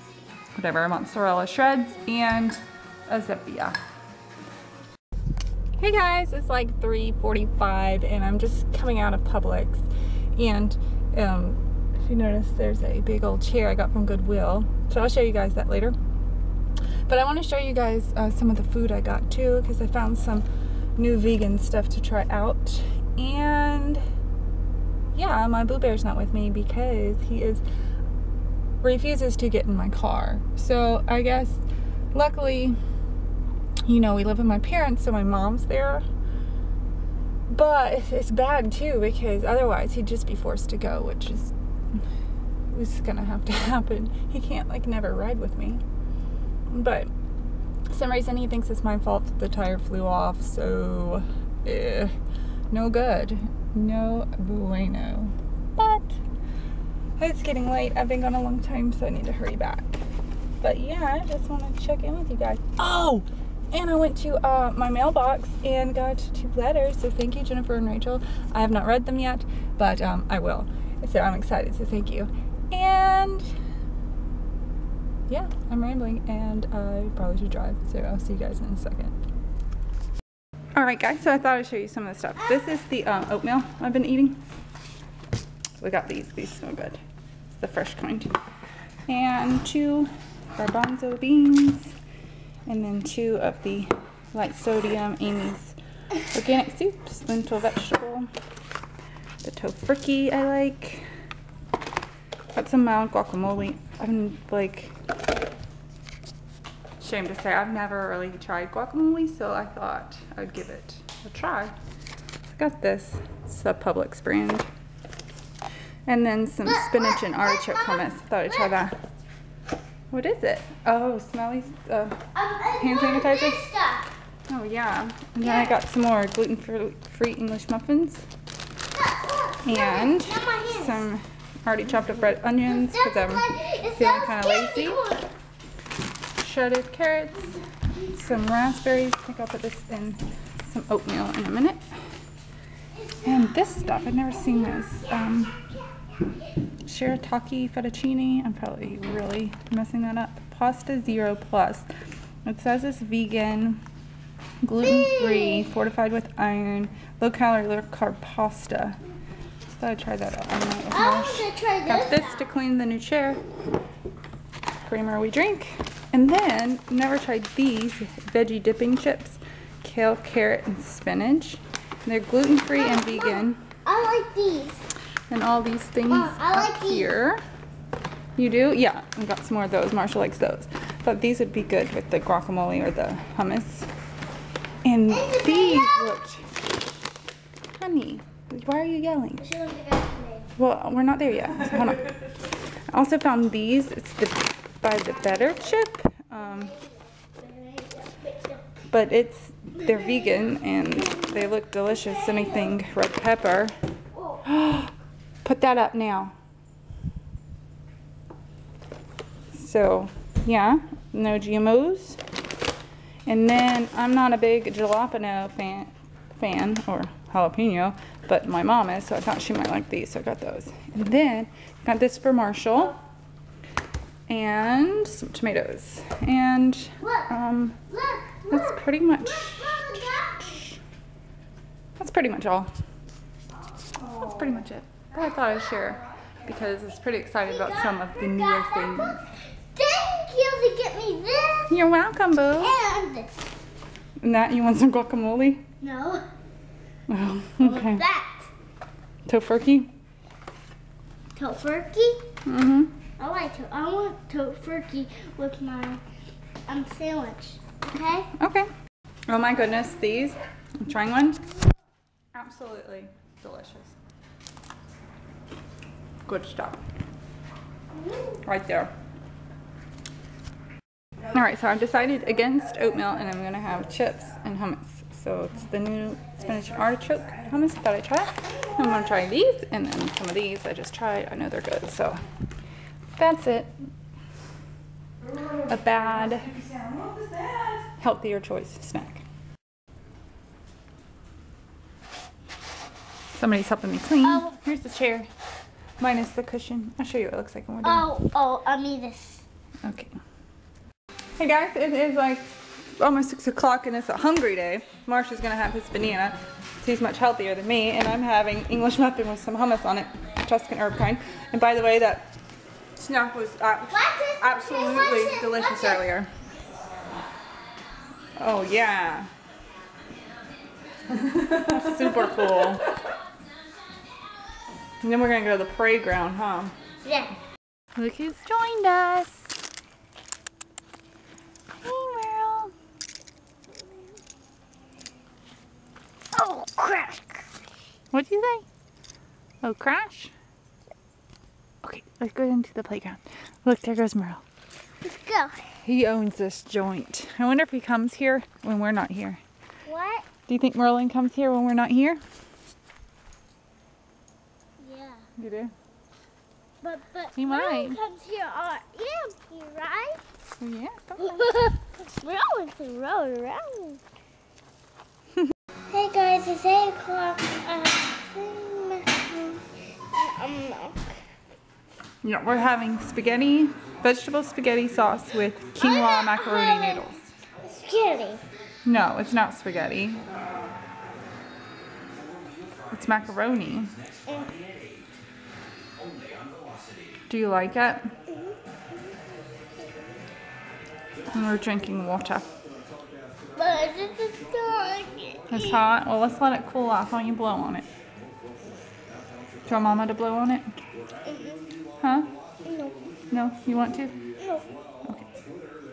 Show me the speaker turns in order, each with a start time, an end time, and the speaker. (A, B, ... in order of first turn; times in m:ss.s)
0:00.6-0:03.8 A
0:05.8-0:16.0 A
0:17.1-0:20.4 A
0:21.0-0:24.0 A
0:25.1-0:27.6 A
0:28.8-0:32.8 A
0:33.9-0:36.1 A
0:37.5-0:42.0 A
0:42.7-0:45.8 A
0:46.7-0:47.1 A
0:47.9-0:52.1 A
0:52.7-0:56.2 A
0:57.2-1:00.0 A
1:00.6-1:13.5 A
1:15.3-1:19.1 A
1:20.8-1:24.4 A
1:25.8-1:27.0 A
1:27.6-1:28.3 A
1:29.1-1:32.0 A
1:32.7-1:35.8 A
1:36.3-1:38.3 A
1:39.4-1:41.1 A
1:42.5-1:45.0 A
1:47.0-1:51.7 A
1:52.5-1:54.7 A
1:56.1-1:59.0 A
1:56.6-1:58.8 B
2:00.1-2:02.2 A
2:02.4-2:04.1 B
2:02.8-2:03.6 A
2:04.5-2:08.3 A
2:05.4-2:05.8 B
2:08.9-2:11.0 B
2:09.6-2:15.0 A
2:12.6-2:15.3 B
2:16.4-2:21.8 A
2:23.0-2:25.9 B
2:23.2-2:25.6 A
2:26.8-2:31.9 A
2:32.4-2:33.8 A
2:34.6-2:39.0 A
2:34.8-2:35.7 B
2:39.7-2:43.4 A
2:40.9-2:42.5 B
2:44.8-2:53.6 A
2:52.8-2:54.8 B
2:55.3-2:57.4 A
2:56.1-2:57.1 B
2:58.4-3:03.9 A
3:04.8-3:06.5 A
3:05.1-3:06.2 B
3:07.8-3:09.4 A
3:09.4-3:10.5 B
3:10.6-3:12.1 A
3:12.9-3:16.8 A
3:16.4-3:18.8 B
3:18.9-3:23.8 A
3:21.1-3:22.8 B
3:24.1-3:24.4 B
3:24.4-3:24.9 A
3:25.4-3:26.4 A
3:29.5-3:32.2 A
3:33.3-3:43.0 A
3:44.3-3:47.8 A
3:47.0-3:47.3 B
3:47.9-3:50.6 B
3:48.5-3:50.8 A
3:52.0-3:52.7 A
3:54.1-3:59.2 A
3:57.4-4:01.8 B
4:01.7-4:02.8 A
4:02.6-4:03.5 B
4:04.2-4:05.6 A
4:05.8-4:06.2 B
4:07.1-4:08.0 A
4:07.6-4:08.5 B
4:09.3-4:09.9 A
4:11.4-4:12.2 B
4:12.4-4:13.0 A
4:13.2-4:16.0 B
4:16.7-4:18.3 B
4:18.4-4:18.7 A
4:19.3-4:21.5 A
4:22.3-4:24.0 A
4:26.3-4:26.8 A
4:27.9-4:28.4 B
4:28.4-4:28.9 A
4:31.3-4:42.2 A
4:43.2-4:43.8 A
4:45.6-4:46.7 A
4:47.7-4:49.2 A
4:53.3-4:55.3 A
4:56.0-4:58.1 A
4:57.8-4:59.4 B
4:59.8-5:00.1 A
5:01.4-5:12.3 A
5:13.0-5:16.3 A
5:13.9-5:16.1 B
5:18.4-5:19.3 A
5:21.3-5:22.9 A
5:25.0-5:26.8 A
5:27.0-5:27.4 B
5:28.0-5:29.6 A
5:31.8-5:32.7 A
5:36.3-5:37.5 B
5:38.1-5:38.7 A
5:39.6-5:40.3 A
5:41.8-5:44.4 A
5:45.0-5:45.7 B
5:45.8-5:49.4 A
5:49.9-5:50.3 B
5:50.5-5:52.2 A
5:54.8-5:55.2 B
5:55.4-5:55.7 A
5:56.8-6:00.2 B
5:57.4-5:58.0 A
6:00.6-6:01.4 A
6:01.2-6:04.0 B
6:05.9-6:11.1 B
6:12.2-6:17.3 A
6:15.8-6:17.0 B
6:17.6-6:18.4 B
6:18.8-6:20.3 A
6:22.9-6:24.0 A
6:24.3-6:24.5 B
6:27.3-6:28.1 A
6:31.3-6:32.5 A
6:33.6-6:35.8 B
6:35.5-6:37.9 A
6:39.7-6:40.7 A
6:41.2-6:41.6 B
6:42.0-6:42.3 A
6:42.6-6:43.0 B
6:43.3-6:44.2 A
6:44.4-6:44.6 B
6:45.0-6:45.3 A